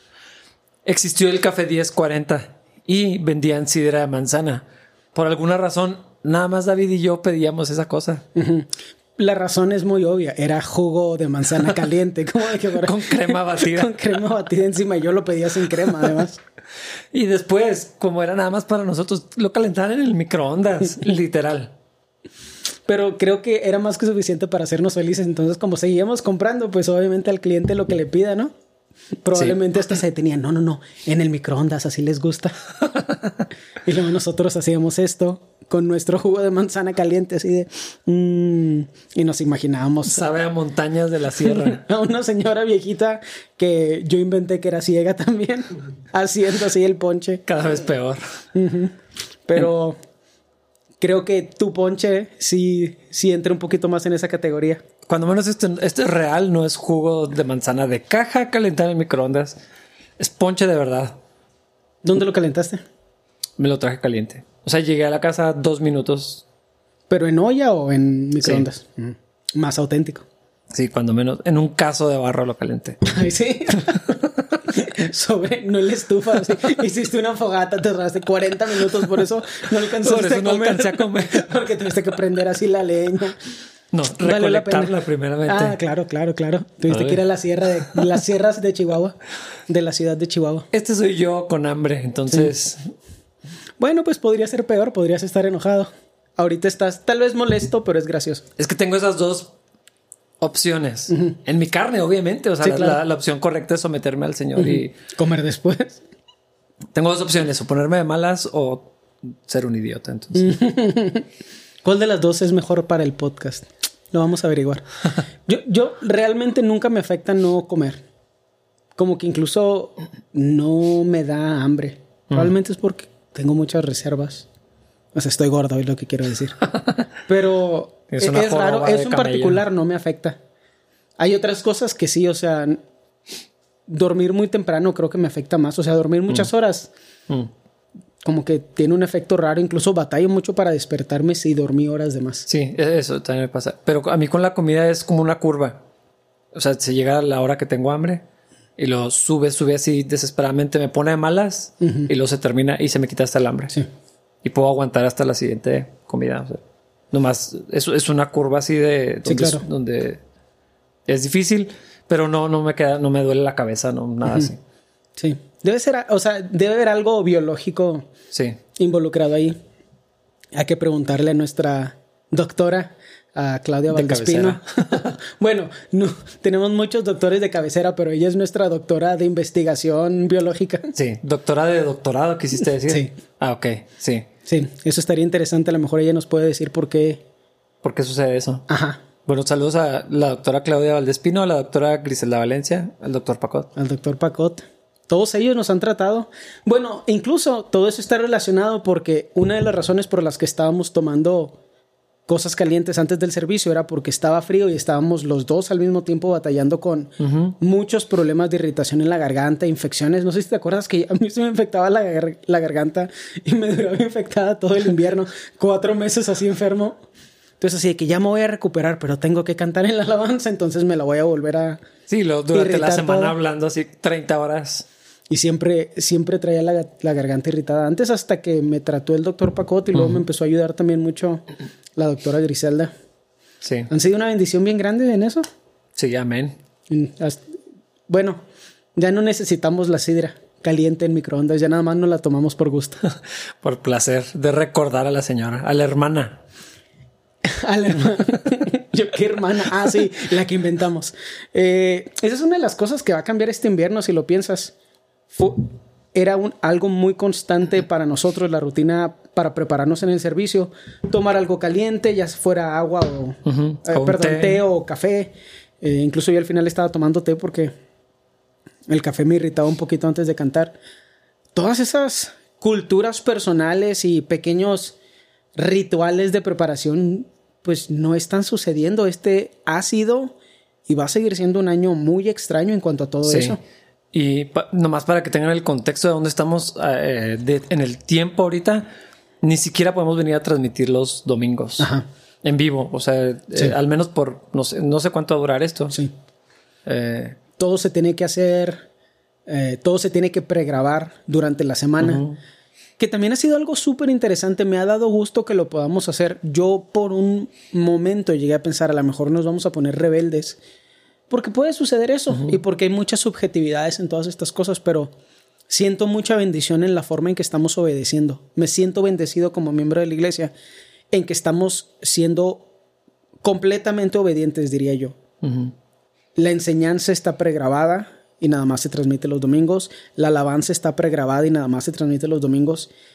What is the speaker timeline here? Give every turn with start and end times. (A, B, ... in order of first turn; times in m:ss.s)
0:00.8-0:08.2 A
0:08.4-0:16.4 B
0:12.7-0:14.1 A
0:17.1-0:21.7 A
0:22.9-0:28.5 B
0:29.2-0:32.7 B
0:33.8-0:40.2 B
0:40.1-0:41.8 A
0:41.5-0:47.4 B
0:47.5-0:48.2 A
0:48.6-0:48.9 B
0:49.5-0:50.0 B
0:51.0-0:54.8 B
0:55.1-0:59.6 A
1:00.2-1:01.2 A
1:02.0-1:02.8 B
1:03.6-1:06.4 A
1:07.1-1:10.3 B
1:10.7-1:13.0 A
1:13.0-1:23.4 B
1:20.0-1:21.5 A
1:23.9-1:25.8 A
1:24.2-1:29.2 B
1:26.9-1:27.2 A
1:29.7-1:30.7 B
1:30.7-1:32.9 A
1:33.8-1:38.4 B
1:38.6-1:39.5 A
1:40.4-1:45.0 A
1:42.6-1:43.0 B
1:44.6-1:46.0 B
1:46.9-1:50.6 A
1:50.4-1:51.3 B
1:51.8-1:54.9 B
1:55.5-1:58.0 B
1:59.0-2:04.5 B
2:05.1-2:06.6 B
2:07.3-2:10.4 B
2:08.1-2:09.6 A
2:11.2-2:12.8 B
2:13.9-2:16.9 B
2:18.2-2:22.5 B
2:22.5-2:25.8 A
2:26.5-2:28.2 A
2:28.8-2:33.7 A
2:31.8-2:32.1 B
2:34.4-2:40.2 A
2:39.3-2:39.6 B
2:41.1-2:44.6 A
2:45.2-2:48.1 B
2:48.3-2:48.6 A
2:48.8-2:49.6 B
2:50.5-3:00.9 B
2:53.9-2:55.0 A
3:01.0-3:04.3 A
3:04.5-3:07.2 B
3:07.8-3:08.6 A
3:08.7-3:09.0 B
3:09.3-3:13.7 A
3:13.8-3:21.6 B
3:22.3-3:37.0 B
3:27.2-3:27.6 A
3:37.6-3:41.8 B
3:42.1-3:44.9 A
3:42.5-3:43.4 B
3:45.3-3:51.4 B
3:50.0-3:50.2 A
3:52.0-3:52.9 B
3:53.6-3:53.9 A
3:53.9-3:55.4 B
3:56.0-3:56.6 A
3:56.9-3:57.5 B
3:58.1-3:58.4 B
3:59.0-4:03.0 B
4:03.0-4:06.4 A
4:07.4-4:14.7 B
4:15.3-4:27.7 B
4:23.4-4:24.6 A
4:28.9-4:30.8 B
4:31.6-4:35.0 B
4:35.6-4:40.4 B
4:40.9-4:43.6 B
4:43.2-4:43.6 A
4:44.1-4:48.9 A
4:49.4-4:51.9 A
4:51.8-4:52.1 B
4:52.4-4:56.0 A
4:56.9-4:57.4 A
4:57.6-4:58.9 B
4:59.5-5:02.2 B
5:02.0-5:02.4 A
5:03.0-5:10.6 B
5:11.3-5:15.1 B
5:12.3-5:12.6 A
5:15.7-5:20.5 B
5:21.1-5:22.7 B
5:23.4-5:25.2 B
5:25.4-5:25.7 A
5:26.4-5:32.9 B